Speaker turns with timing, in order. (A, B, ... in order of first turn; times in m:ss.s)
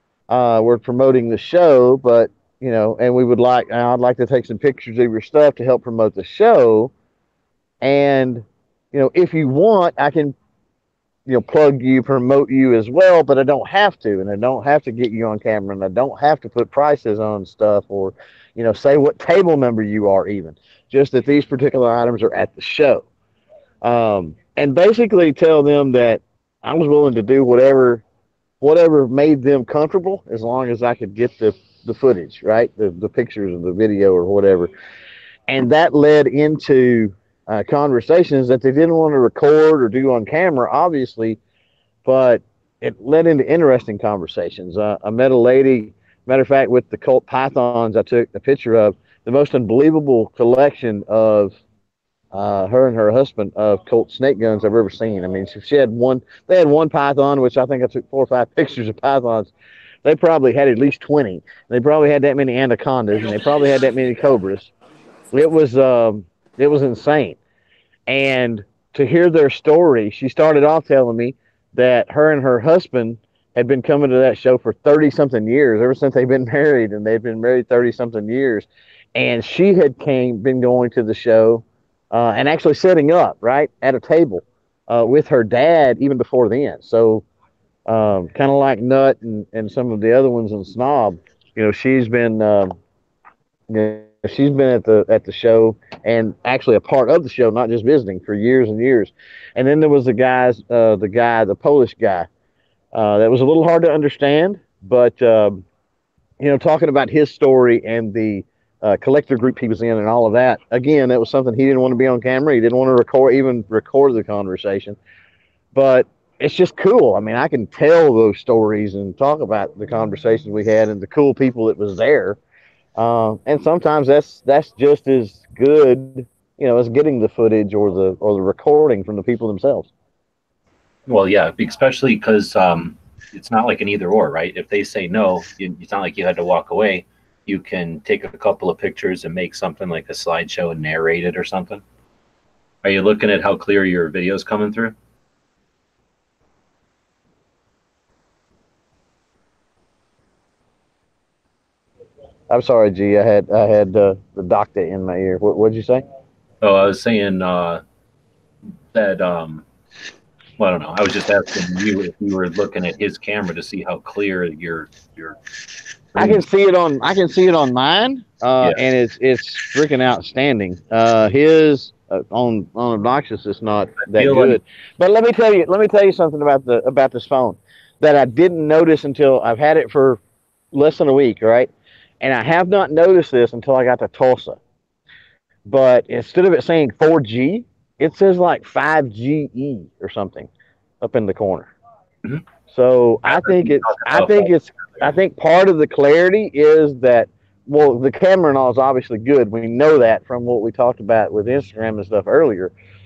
0:00.3-0:06.9 A
0:07.8-0:10.4 A
0:11.2-0:23.0 A
0:23.8-0:28.0 A
0:28.6-0:34.7 A
0:35.5-0:41.4 A
0:42.0-0:51.6 A
0:52.3-0:59.5 A
1:00.0-1:04.7 A
1:05.3-1:07.4 A
1:08.1-1:27.2 A
1:27.8-1:32.8 A
1:33.7-1:42.3 A
1:42.9-1:45.6 A
1:46.4-1:55.0 A
1:55.7-2:02.4 A
2:03.0-2:09.9 A
2:11.1-2:21.8 B
2:22.8-2:24.9 B
2:32.5-2:36.0 A
2:36.6-2:37.8 B
2:38.9-2:39.6 B
2:40.6-2:45.4 B
2:46.1-2:46.4 B
2:46.2-3:00.2 A
2:54.0-2:54.6 B
3:00.7-3:04.6 A
3:05.6-3:10.5 A
3:11.0-3:11.7 A
3:12.7-3:22.7 A
3:13.2-3:15.0 B